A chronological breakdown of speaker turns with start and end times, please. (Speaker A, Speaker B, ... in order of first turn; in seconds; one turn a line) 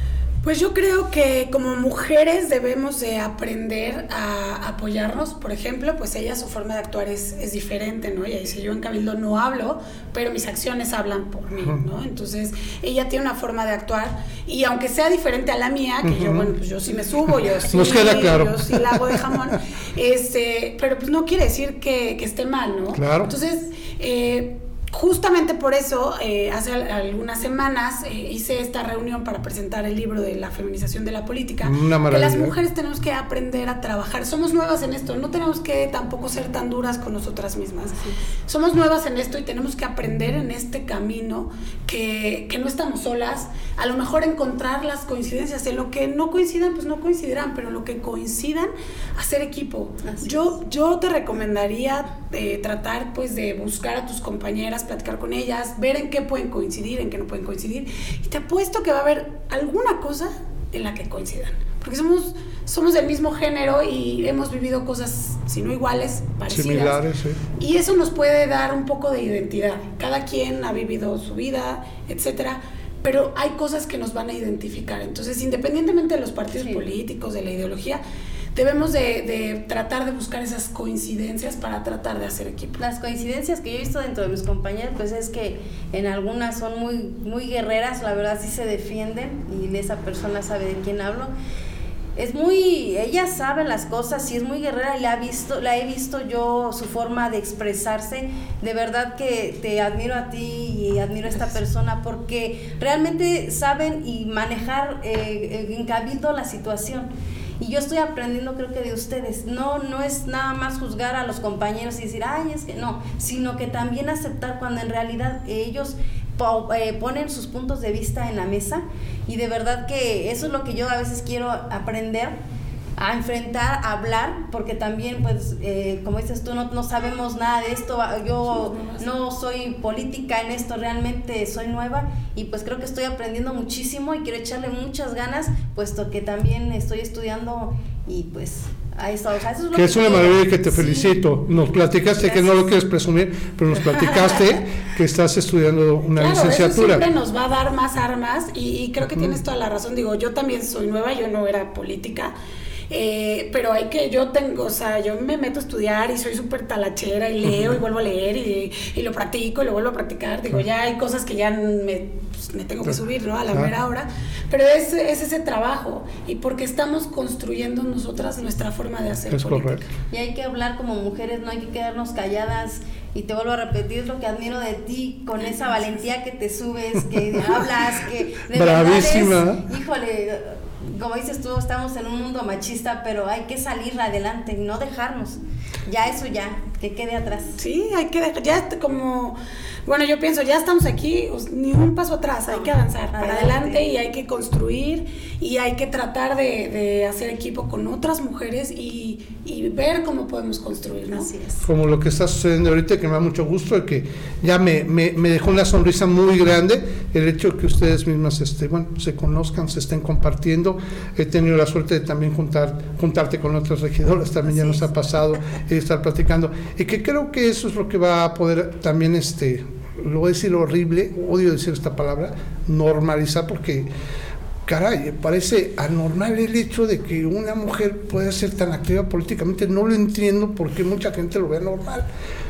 Speaker A: 0.4-67.0
Speaker B: 16.0-16.5
Speaker B: 17.7-19.2
Speaker B: 22.9-23.3
Speaker B: 31.6-32.5
Speaker C: 50.0-50.5
Speaker B: 66.5-67.4
Speaker A: 67.6-78.0
Speaker C: 76.6-76.8
Speaker A: 78.5-82.8
Speaker C: 82.8-91.3
Speaker C: 92.2-122.3
Speaker C: 123.0-141.2
Speaker A: 128.5-129.0
Speaker B: 139.7-147.0
Speaker C: 142.0-142.7
Speaker A: 146.2-152.3
Speaker A: 152.9-169.9
Speaker B: 169.3-169.8
Speaker C: 170.1-187.6
Speaker B: 178.5-179.6
Speaker A: 187.6-201.5
Speaker C: 192.5-193.8
Speaker B: 201.6-223.9
Speaker B: 224.7-232.1